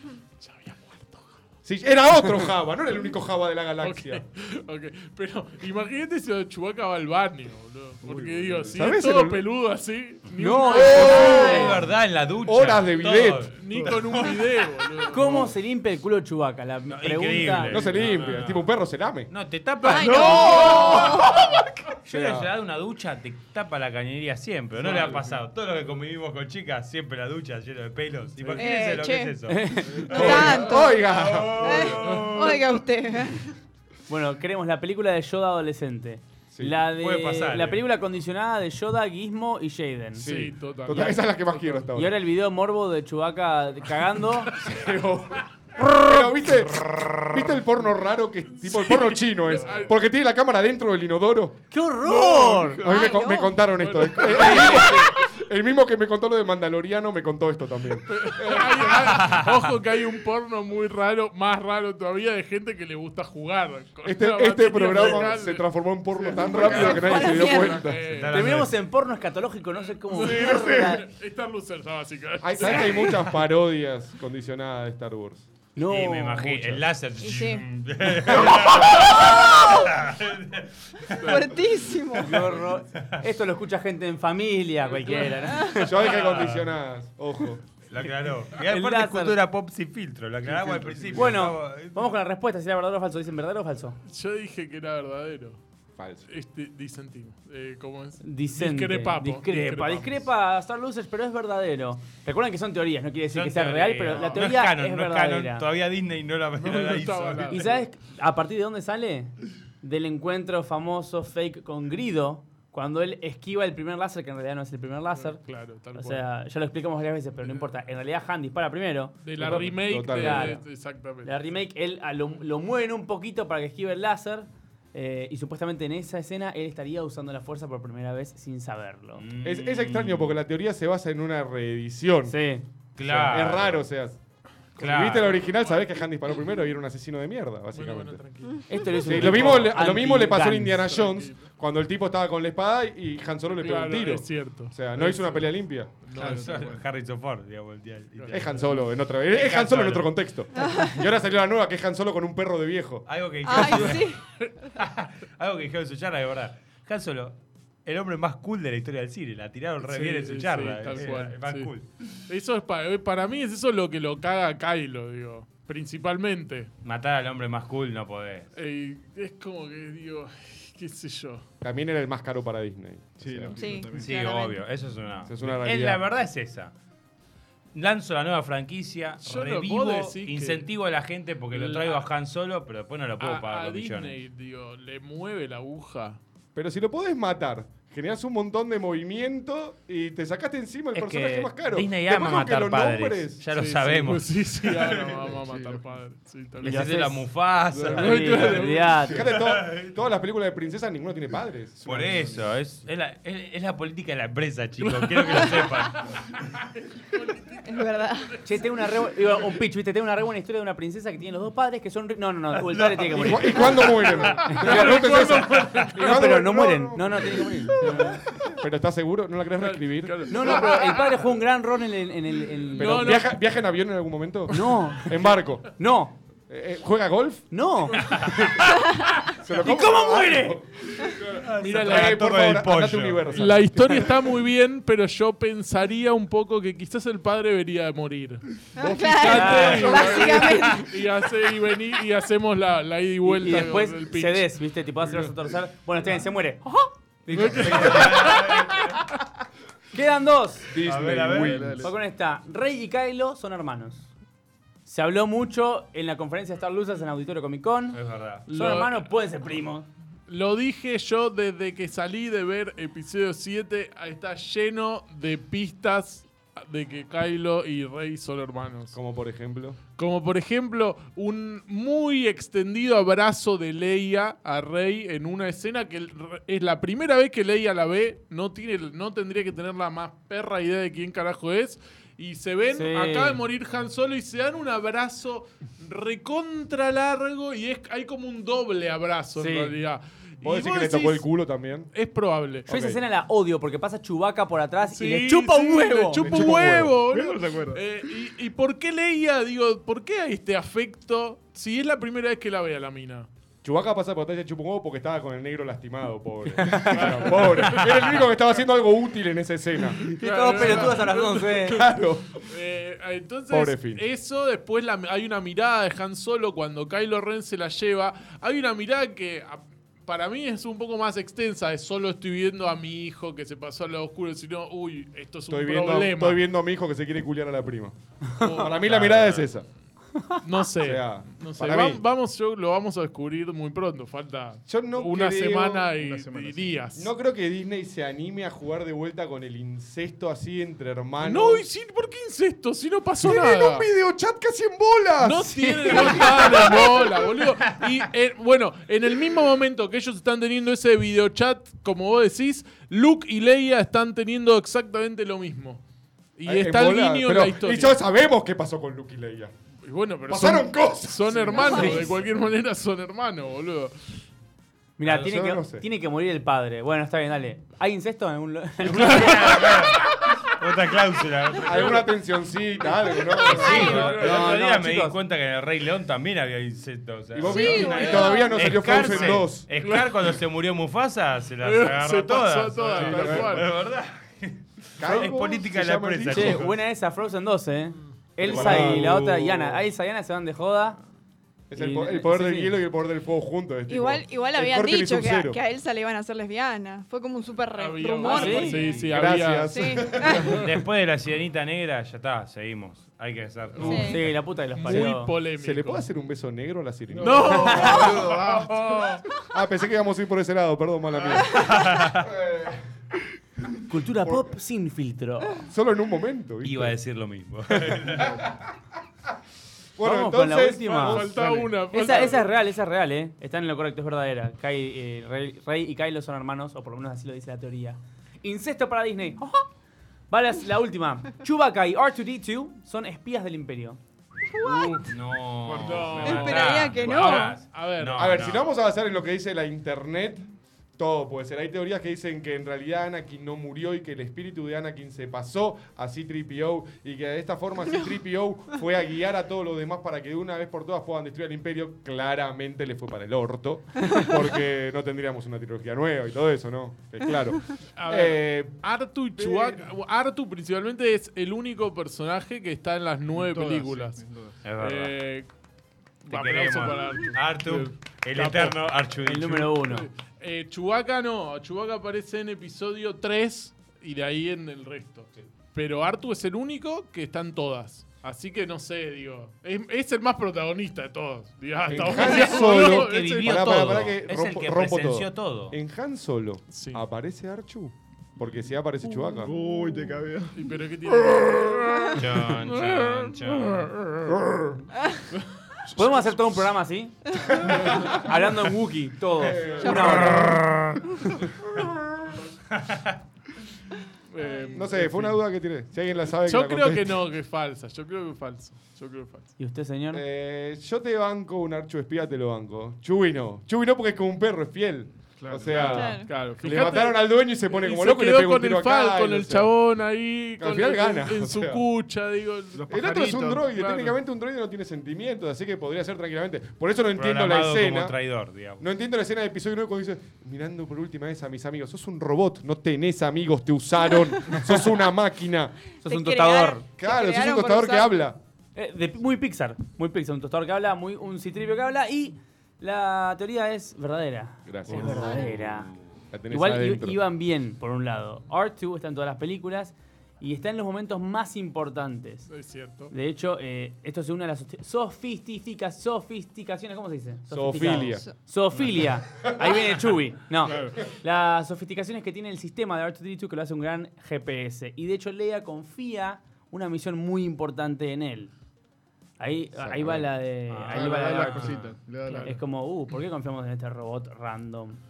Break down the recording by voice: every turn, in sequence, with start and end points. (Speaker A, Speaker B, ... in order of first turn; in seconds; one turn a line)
Speaker A: 0.4-1.3
Speaker B: 1.6-4.2
Speaker A: 3.8-11.7
Speaker C: 8.0-8.9
Speaker B: 8.7-9.4
Speaker D: 10.4-11.7
Speaker B: 10.7-11.8
Speaker E: 11.1-14.5
Speaker B: 12.4-13.5
Speaker A: 13.5-15.5
Speaker D: 15.1-17.8
Speaker E: 16.9-18.7
Speaker B: 17.7-19.3
Speaker E: 19.3-32.8
Speaker F: 19.8-21.4
Speaker B: 20.7-21.0
Speaker B: 22.1-22.5
Speaker F: 28.6-29.4
Speaker D: 29.5-30.4
Speaker C: 29.9-30.2
Speaker B: 30.1-31.8
Speaker F: 30.1-31.0
Speaker F: 31.5-33.5
Speaker D: 34.1-40.3
Speaker B: 36.5-36.8
Speaker E: 37.0-37.8
Speaker A: 40.2-41.8
Speaker B: 40.2-42.2
Speaker D: 41.9-44.5
Speaker B: 44.6-51.6
Speaker A: 48.6-49.9
Speaker D: 51.7-52.8
Speaker A: 52.0-55.2
Speaker B: 52.8-59.2
Speaker F: 52.8-53.6
Speaker A: 58.1-68.6
Speaker B: 64.0-68.0
Speaker F: 66.7-67.8
Speaker E: 67.9-68.7
Speaker D: 68.3-71.1
Speaker A: 70.1-73.3
Speaker C: 70.5-70.8
Speaker B: 72.4-75.5
Speaker D: 75.8-76.8
Speaker E: 75.9-81.5
Speaker F: 77.2-77.6
Speaker B: 78.3-78.7
Speaker F: 78.9-79.9
Speaker F: 81.2-82.5
Speaker A: 81.2-81.5
Speaker D: 82.2-85.9
Speaker A: 84.9-85.5
Speaker F: 85.5-85.8
Speaker B: 85.8-87.6
Speaker E: 86.2-86.7
Speaker E: 87.9-92.1
Speaker D: 88.5-89.4
Speaker C: 90.5-91.2
Speaker D: 91.1-94.0
Speaker A: 94.1-95.6
Speaker B: 96.0-96.2
Speaker A: 96.3-100.2
Speaker D: 98.2-105.7
Speaker E: 103.3-107.7
Speaker A: 104.1-104.5
Speaker A: 106.6-107.8
Speaker D: 107.5-115.4
Speaker A: 115.1-116.2
Speaker D: 115.9-120.6
Speaker A: 119.2-121.3
Speaker B: 119.4-120.5
Speaker D: 121.2-129.2
Speaker E: 129.2-130.4
Speaker B: 129.4-132.4
Speaker D: 132.3-132.6
Speaker E: 133.0-133.8
Speaker B: 133.0-134.2
Speaker E: 134.8-135.3
Speaker A: 134.8-135.6
Speaker B: 134.8-138.2
Speaker A: 137.7-139.7
Speaker D: 138.7-140.9
Speaker B: 139.0-145.9
Speaker A: 140.8-141.4
Speaker A: 143.5-145.5
Speaker A: 146.0-146.7
Speaker C: 146.1-146.8
Speaker E: 146.1-148.6
Speaker A: 148.2-148.8
Speaker B: 148.3-153.1
Speaker E: 149.3-150.1
Speaker F: 150.6-151.1
Speaker E: 153.1-154.2
Speaker F: 153.4-154.2
Speaker E: 154.7-161.9
Speaker A: 159.8-161.7
Speaker A: 162.3-166.7
Speaker E: 166.8-168.5
Speaker A: 168.6-171.4
Speaker B: 171.6-173.6
Speaker C: 173.2-174.3
Speaker F: 173.5-174.6
Speaker E: 174.0-176.7
Speaker B: 175.3-176.1
Speaker E: 177.7-184.2
Speaker A: 179.2-180.7
Speaker A: 181.5-182.0
Speaker A: 183.2-186.2
Speaker B: 186.5-193.4
Speaker E: 190.9-195.2
Speaker A: 193.5-196.9
Speaker C: 195.2-195.8
Speaker D: 196.6-197.2
Speaker E: 196.6-199.9
Speaker A: 197.7-199.1
Speaker D: 197.9-199.2
Speaker B: 199.0-202.1
Speaker C: 201.8-202.5
Speaker E: 201.8-206.3
Speaker A: 204.8-209.5
Speaker F: 207.6-208.4
Speaker D: 208.4-213.9
Speaker E: 212.7-214.5
Speaker B: 213.1-220.6
Speaker A: 213.8-216.0
Speaker D: 214.4-218.2
Speaker E: 215.6-215.9
Speaker A: 217.8-218.1
Speaker A: 219.6-221.3
Speaker D: 220.3-223.2
Speaker A: 222.7-223.3
Speaker B: 222.8-225.7
Speaker D: 224.5-226.1
Speaker B: 226.5-227.5
Speaker D: 227.5-228.8
Speaker B: 229.3-234.1
Speaker D: 229.5-230.6
Speaker E: 231.3-233.4
Speaker A: 231.6-232.2
Speaker A: 233.3-244.5
Speaker F: 238.8-240.9
Speaker D: 239.2-240.3
Speaker E: 239.5-240.8
Speaker D: 243.2-248.3
Speaker A: 247.3-249.0
Speaker E: 247.4-249.0
Speaker D: 249.9-250.7
Speaker B: 250.7-251.9
Speaker E: 250.8-251.7
Speaker C: 251.1-251.9
Speaker D: 251.8-254.1
Speaker D: 254.8-259.9
Speaker E: 257.9-258.4
Speaker A: 258.5-259.1
Speaker A: 260.3-269.0
Speaker B: 268.9-269.8
Speaker A: 270.0-291.2
Speaker D: 282.7-283.4
Speaker D: 289.4-289.7
Speaker B: 290.4-291.9
Speaker A: 291.9-292.7
Speaker B: 292.6-293.0
Speaker D: 292.7-296.3
Speaker A: 294.8-303.3
Speaker B: 296.2-297.0
Speaker C: 297.0-297.8
Speaker B: 303.6-310.0
Speaker D: 306.5-307.4
Speaker A: 306.9-308.3
Speaker A: 310.0-326.4
Speaker D: 310.0-311.8
Speaker B: 310.6-311.0
Speaker B: 311.6-312.4
Speaker B: 313.5-314.0
Speaker B: 325.5-329.6
Speaker A: 328.4-329.0
Speaker E: 328.8-329.4
Speaker A: 330.4-337.1
Speaker B: 330.8-332.0
Speaker B: 334.7-335.9
Speaker C: 335.9-336.8
Speaker B: 336.9-341.6
Speaker A: 341.2-343.9
Speaker B: 343.2-347.2
Speaker A: 345.2-355.8
Speaker D: 345.5-346.6
Speaker A: 356.4-358.0
Speaker B: 356.4-359.5
Speaker A: 359.9-364.1
Speaker B: 360.3-362.0
Speaker D: 365.0-369.7
Speaker E: 365.0-365.3
Speaker B: 365.1-365.9
Speaker E: 368.8-372.0
Speaker A: 368.9-370.2
Speaker B: 371.6-374.0
Speaker F: 373.4-374.0
Speaker E: 373.4-386.7
Speaker D: 373.5-375.2
Speaker A: 373.6-374.5
Speaker B: 377.3-379.7
Speaker F: 377.4-378.8
Speaker A: 379.0-380.4
Speaker A: 381.6-383.7
Speaker B: 382.9-383.6
Speaker B: 385.0-386.7
Speaker D: 386.3-391.0
Speaker B: 388.4-389.7
Speaker B: 391.7-395.6
Speaker D: 391.7-392.8
Speaker F: 393.9-399.1
Speaker A: 397.8-400.6
Speaker D: 398.2-398.9
Speaker B: 399.0-400.4
Speaker F: 399.7-400.6
Speaker E: 400.5-404.2
Speaker A: 403.8-404.1
Speaker F: 403.8-404.2
Speaker D: 404.0-405.3
Speaker A: 404.7-406.0
Speaker B: 405.6-408.0
Speaker C: 407.1-409.2
Speaker A: 407.2-409.2
Speaker D: 407.6-408.0
Speaker B: 409.5-412.8
Speaker E: 411.3-412.3
Speaker D: 413.9-415.7
Speaker B: 414.2-414.5
Speaker B: 415.7-416.9
Speaker E: 416.6-418.4
Speaker B: 417.8-418.5
Speaker B: 419.9-421.8
Speaker D: 420.0-421.4
Speaker A: 420.9-422.5
Speaker D: 421.9-429.6
Speaker D: 430.3-434.0
Speaker F: 434.5-435.1
Speaker A: 434.6-435.1
Speaker E: 435.1-438.6
Speaker C: 435.6-436.5
Speaker A: 435.7-438.3
Speaker F: 436.2-437.6
Speaker B: 438.1-440.4
Speaker B: 441.0-458.8
Speaker A: 457.9-464.2
Speaker B: 459.4-459.8
Speaker C: 463.3-464.6
Speaker E: 464.6-465.1
Speaker A: 464.8-465.5
Speaker A: 466.2-468.8
Speaker E: 466.3-469.7
Speaker D: 469.2-470.1
Speaker A: 469.8-483.9
Speaker B: 481.9-489.5
Speaker E: 482.2-485.8
Speaker A: 486.7-487.0
Speaker C: 489.4-490.7
Speaker A: 490.5-494.4
Speaker E: 492.1-494.0
Speaker A: 495.3-496.7
Speaker D: 495.9-497.2
Speaker B: 497.6-497.9
Speaker D: 497.8-500.8
Speaker B: 499.4-500.4
Speaker F: 499.8-500.5
Speaker B: 501.8-502.1
Speaker E: 502.7-503.1
Speaker A: 504.3-505.4
Speaker B: 504.7-507.2
Speaker A: 506.4-509.5
Speaker D: 509.6-510.2
Speaker B: 510.1-519.7
Speaker C: 515.4-516.2
Speaker A: 515.7-524.1
Speaker F: 515.9-516.3
Speaker B: 520.6-521.8
Speaker C: 522.7-523.6
Speaker B: 522.9-528.1
Speaker E: 527.1-528.8
Speaker B: 528.8-535.8
Speaker D: 536.0-536.8
Speaker F: 536.0-538.2
Speaker B: 537.0-538.4
Speaker D: 538.7-545.9
Speaker B: 544.6-545.4
Speaker F: 545.2-545.5
Speaker E: 545.3-546.0
Speaker B: 546.3-547.2
Speaker D: 546.5-552.5
Speaker A: 552.5-553.1
Speaker D: 553.1-568.5
Speaker B: 557.5-558.2
Speaker C: 560.7-561.0
Speaker D: 569.4-571.8
Speaker B: 569.8-570.2
Speaker E: 570.7-572.4
Speaker C: 570.9-572.6
Speaker D: 572.4-575.0